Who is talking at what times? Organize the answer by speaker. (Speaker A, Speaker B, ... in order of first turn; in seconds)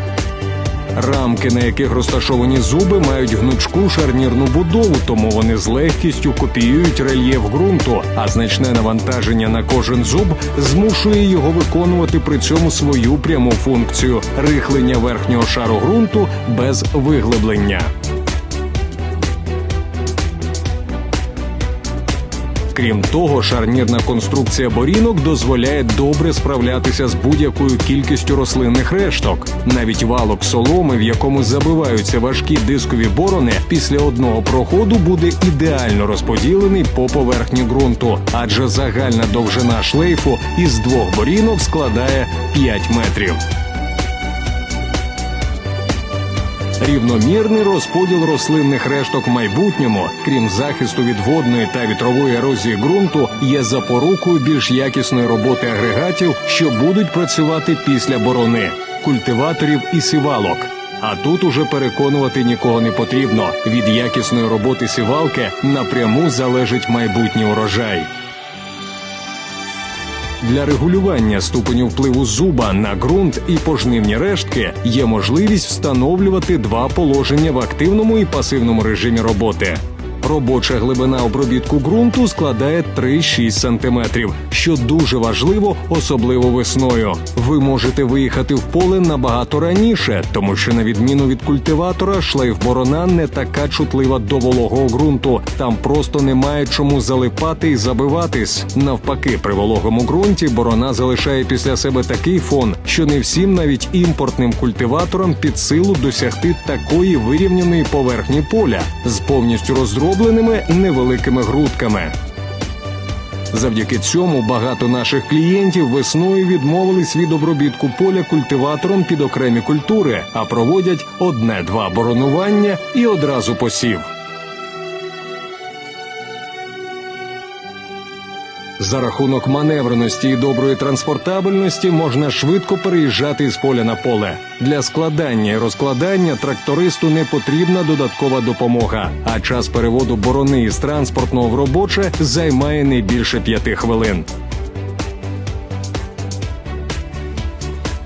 Speaker A: 0.9-17.9, 22.7-43.4, 46.8-68.1, 70.4-112.2, 113.5-124.1, 128.8-144.3